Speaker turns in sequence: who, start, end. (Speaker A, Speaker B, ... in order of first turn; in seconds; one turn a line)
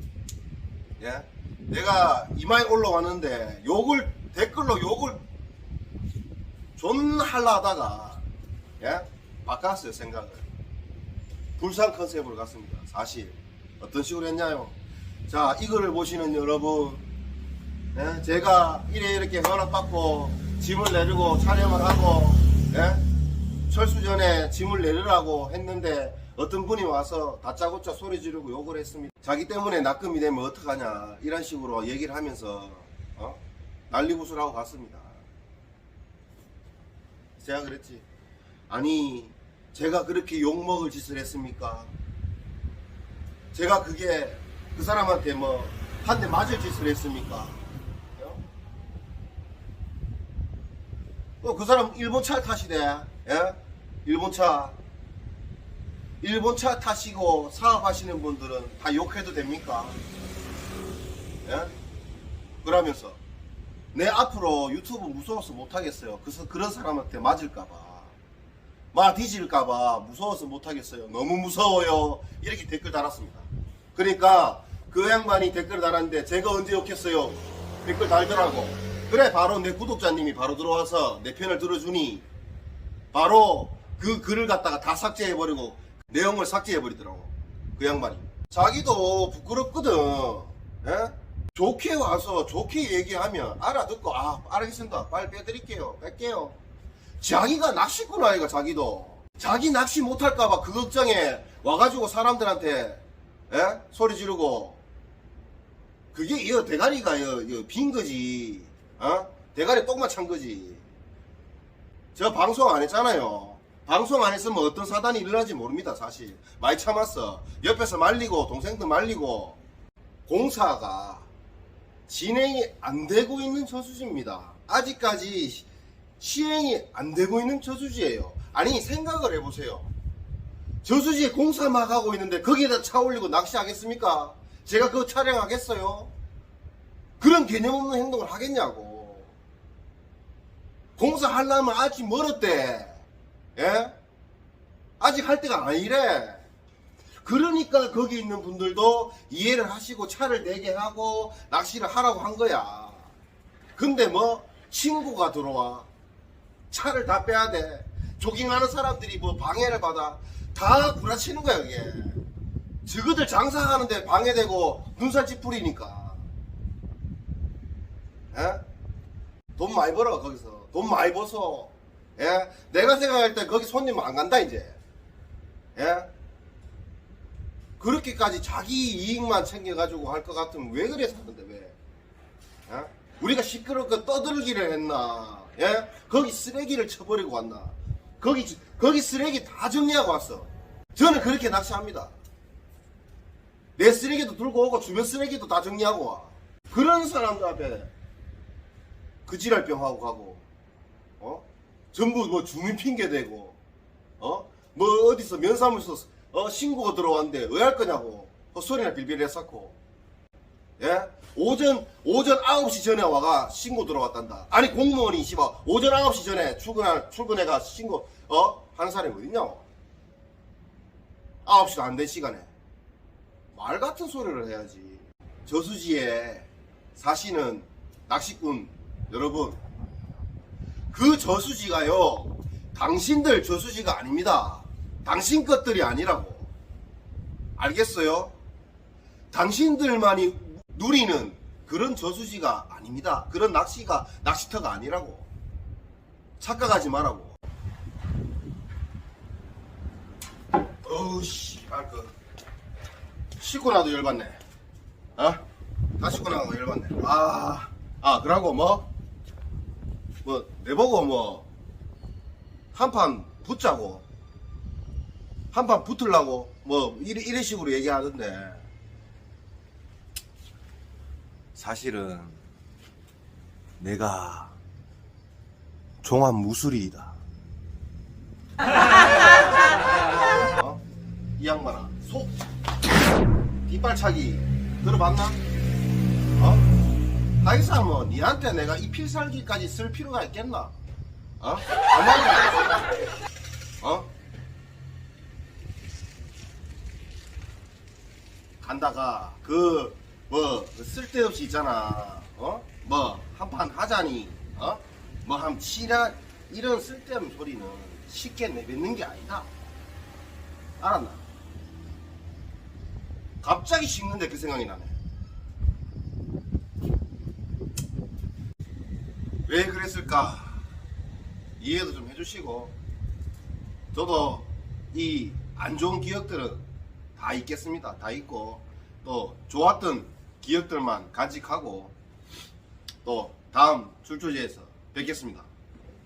Speaker A: 1.0-5.2
Speaker A: 6.8-8.2
Speaker A: 8.8-10.4
Speaker A: 11.6-14.8
Speaker A: 15.3-17.1
Speaker A: 17.9-23.0
Speaker A: 23.7-35.2
Speaker A: 37.4-38.1
Speaker A: 38.7-41.9
Speaker A: 43.5-47.6
Speaker A: 51.4-54.8
Speaker A: 56.2-60.0
Speaker A: 61.5-61.7
Speaker A: 62.6-63.2
Speaker A: 63.9-68.1
Speaker A: 68.9-82.2
Speaker A: 83.1-96.6
Speaker A: 97.2-104.8
Speaker A: 106.1-110.8
Speaker A: 112.2-119.6
Speaker A: 120.3-121.3
Speaker A: 122.1-125.7
Speaker A: 126.2-129.9
Speaker A: 130.8-136.1
Speaker A: 137.2-139.3
Speaker A: 141.0-143.0
Speaker A: 143.6-144.0
Speaker A: 145.0-146.4
Speaker A: 147.2-153.1
Speaker A: 153.8-155.9
Speaker A: 156.7-162.2
Speaker A: 162.9-166.2
Speaker A: 168.3-168.6
Speaker A: 169.6-174.8
Speaker A: 175.8-176.1
Speaker A: 177.8-181.8
Speaker A: 182.7-192.1
Speaker A: 193.8-197.9
Speaker A: 199.3-200.5
Speaker A: 201.2-203.6
Speaker A: 204.2-209.8
Speaker A: 210.8-219.7
Speaker A: 221.4-222.5
Speaker A: 223.5-229.6
Speaker A: 230.9-236.5
Speaker A: 237.6-238.3
Speaker A: 239.3-245.3
Speaker A: 246.4-247.3
Speaker A: 250.8-252.1
Speaker A: 253.4-254.4
Speaker A: 255.2-255.4
Speaker A: 256.0-258.9
Speaker A: 260.2-261.5
Speaker A: 262.7-264.1
Speaker A: 265.5-268.6
Speaker A: 271.6-272.4
Speaker A: 273.8-274.6
Speaker A: 276.0-277.2
Speaker A: 280.5-280.8
Speaker A: 281.4-282.3
Speaker A: 283.7-285.4
Speaker A: 286.4-286.7
Speaker A: 287.4-290.7
Speaker A: 291.4-292.8
Speaker A: 293.8-294.1
Speaker A: 298.6-309.5
Speaker A: 310.8-311.2
Speaker A: 313.4-314.9
Speaker A: 319.5-320.6
Speaker A: 321.6-322.8
Speaker A: 323.9-326.6
Speaker A: 327.2-331.9
Speaker A: 333.0-335.5